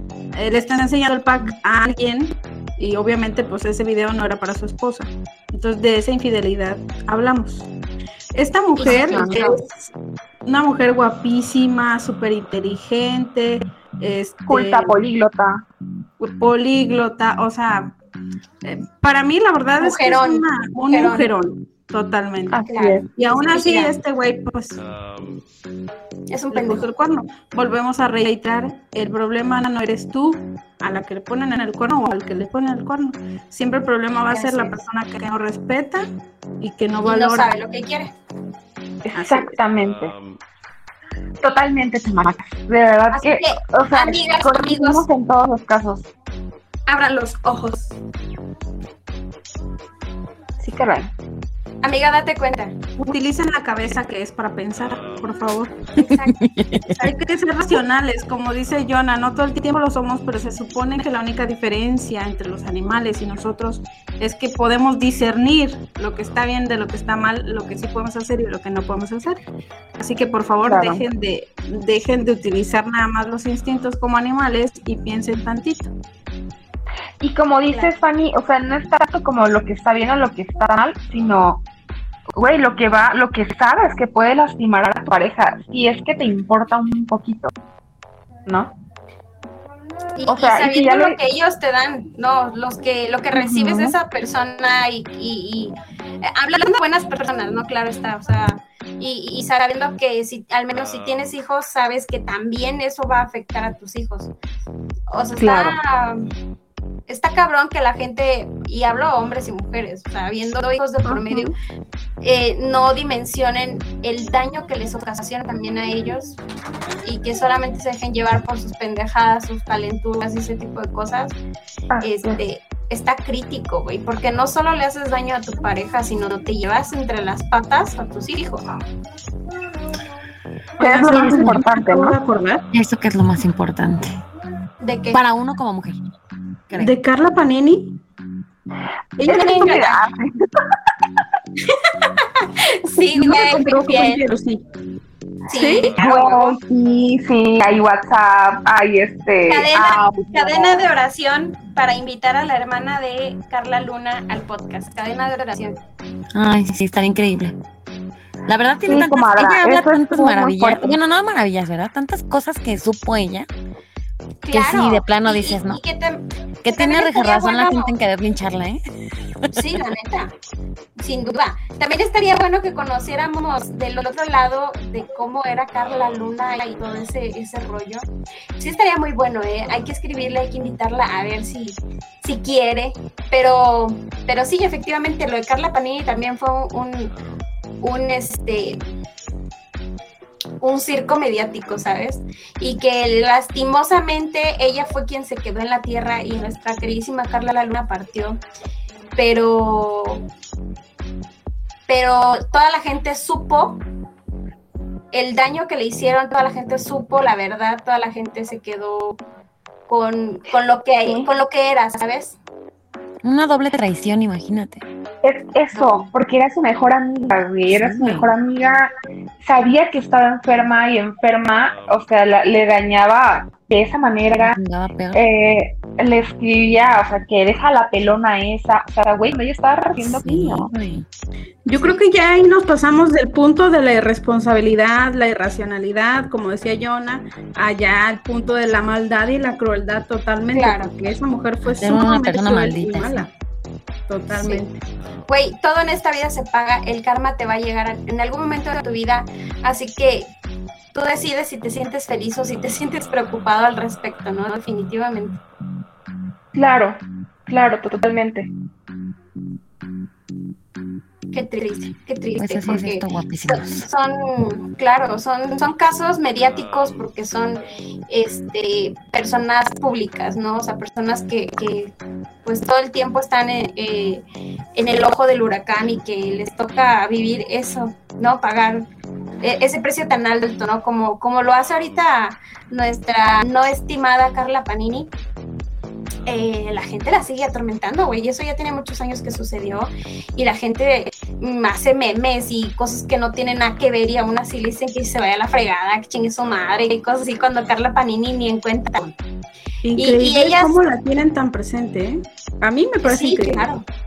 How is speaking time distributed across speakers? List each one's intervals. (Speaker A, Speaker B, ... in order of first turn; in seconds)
Speaker A: 0.3-7.7, 8.3-9.6, 10.4-15.0, 16.2-17.9, 18.6-22.6, 23.2-24.8, 26.5-36.1, 36.6-37.5, 39.1-39.6, 53.0-55.8, 57.0-69.4, 70.0-75.9, 130.8-132.7, 136.8-138.0, 139.2-139.7, 142.9-144.6, 145.5-145.9, 231.7-243.3, 244.1-244.8, 299.8-303.7
Speaker B: 8.8-9.8, 19.8-21.3, 22.7-24.0, 26.3-26.9, 34.3-34.8, 37.0-38.1, 43.1-45.1, 46.9-48.0, 51.8-52.8, 56.0-56.4, 90.2-104.3, 105.1-106.3, 107.1-111.5, 112.2-116.4, 117.0-121.4, 122.0-128.7, 134.8-135.2, 139.3-140.0, 142.6-144.2, 145.5-146.6, 149.5-155.8, 164.4-167.9, 169.5-170.3, 171.0-178.1, 178.6-187.1, 187.8-188.8, 190.6-198.4, 199.2-200.3, 201.9-203.8, 205.1-209.2, 209.9-212.4, 240.5-240.9, 244.3-244.6, 245.3-250.3, 250.9-255.4, 261.3-271.9, 272.4-274.2, 274.8-278.9, 279.4-285.1, 286.3-299.2, 300.0-300.8, 303.1-303.9
Speaker C: 8.9-9.4, 14.5-15.6, 22.5-23.1, 39.0-40.1, 41.4-46.1, 50.6-51.1, 70.6-71.0, 77.2-81.7, 82.3-87.5, 88.5-88.7, 90.3-91.2, 93.3-94.0, 105.4-105.8, 111.0-111.5, 121.9-122.4, 130.8-132.2, 139.3-140.3, 146.0-150.9, 158.9-160.9, 215.2-224.6, 225.1-230.7, 256.6-258.5
Speaker D: 56.1-57.0, 132.7-134.2, 135.1-136.0, 136.7-137.0, 156.3-157.6, 158.5-163.5, 164.5-165.8, 166.6-168.8, 213.2-214.8, 217.7-218.3, 224.4-225.2, 230.0-231.1, 241.7-243.3, 262.4-263.9